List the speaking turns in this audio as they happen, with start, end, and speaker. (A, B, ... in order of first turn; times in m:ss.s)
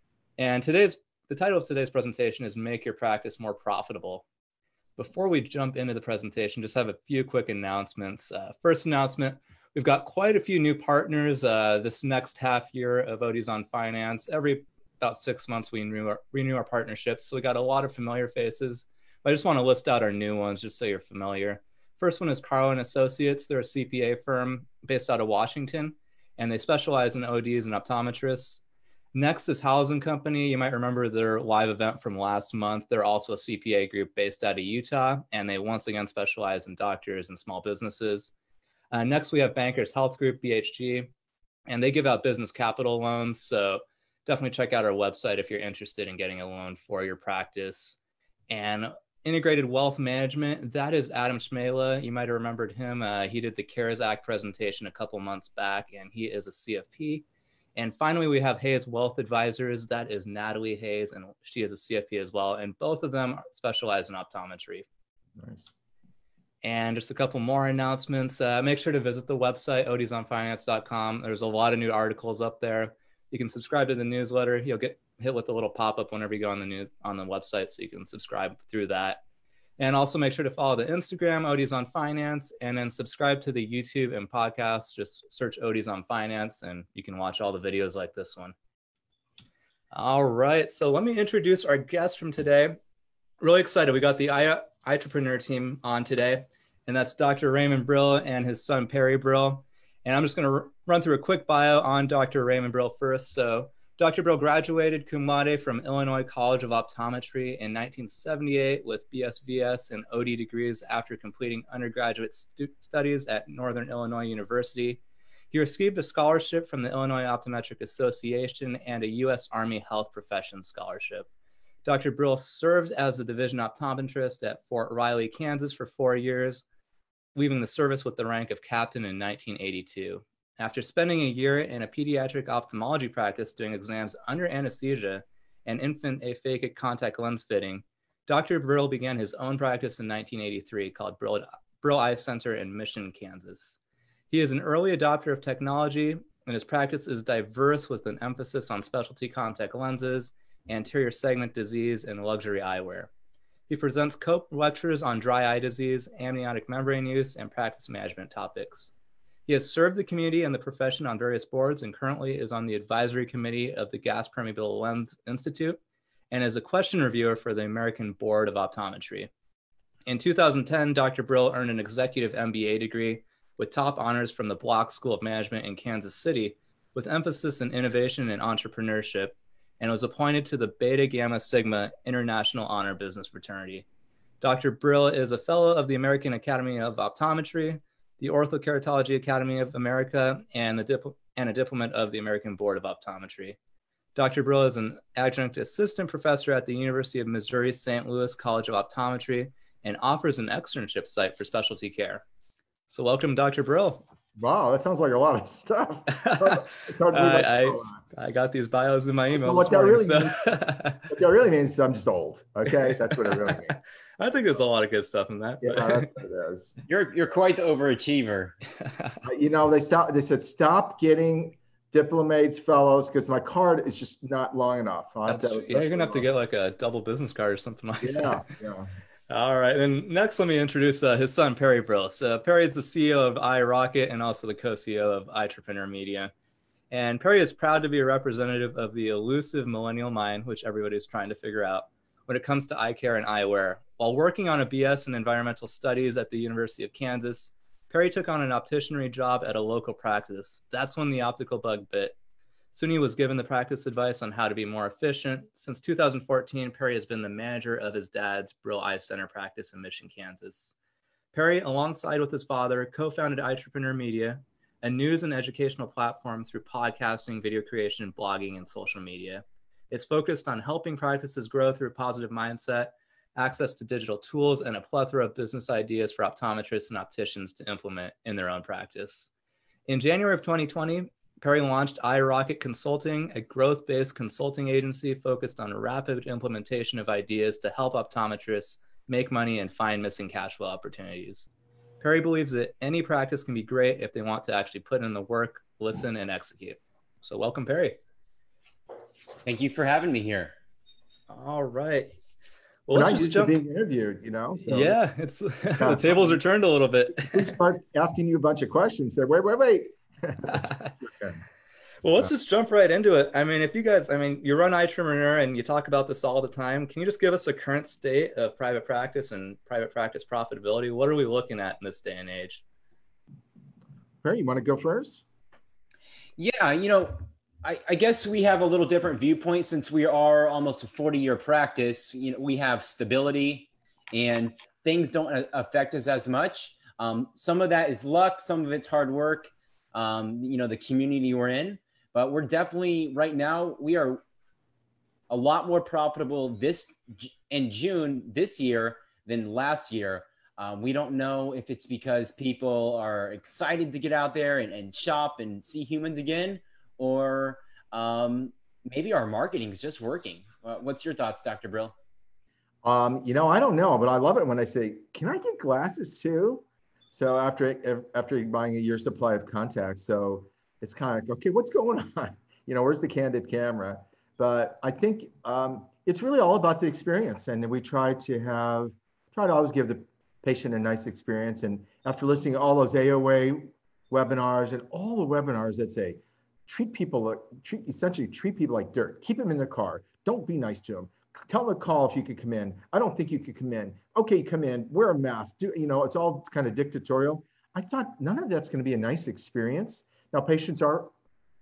0:00.4-0:04.2 A
0:05.0-0:28.6 A
0:29.1-0:38.3 A
0:38.9-0:41.1 A
0:41.7-0:48.0 A
0:48.5-1:04.8 A
1:05.4-1:05.7 B
1:06.6-1:19.2 A
1:19.8-1:28.5 A
1:29.9-1:32.8 A
1:33.4-2:01.3 A
2:01.8-2:06.6 A
2:07.3-2:23.8 A
2:24.3-2:33.1 A
2:33.7-2:38.9 A
2:39.5-2:45.8 A
2:46.3-2:49.3 A
2:50.0-3:03.8 A
3:04.4-3:13.6 A
3:14.1-3:22.2 A
3:22.9-3:24.1 A
3:24.4-3:28.0 B
3:26.2-3:31.1 A
3:29.3-3:33.8 B
3:32.7-3:36.1 A
3:35.6-3:36.8 B
3:36.9-3:38.6 C
3:38.8-3:39.2 A
3:39.2-3:46.2 B
3:45.3-3:48.5 A
3:48.0-3:48.9 B
3:49.3-3:56.3 A
3:56.9-4:12.2 A
4:12.7-4:20.7 A
4:21.3-4:39.3 A
4:39.9-4:51.5 A
4:52.0-4:58.0 A
4:59.4-5:00.5 C
5:01.3-5:02.1 A
5:02.9-5:03.6 A
5:02.9-5:05.0 B
5:04.7-5:07.6 A
5:05.8-5:06.4 B
5:07.1-5:11.4 B
5:10.5-5:10.9 A
5:12.0-5:22.6 A
5:24.2-5:25.2 B
5:26.4-5:44.2 C
5:45.3-6:01.9 C
6:02.8-6:41.1 B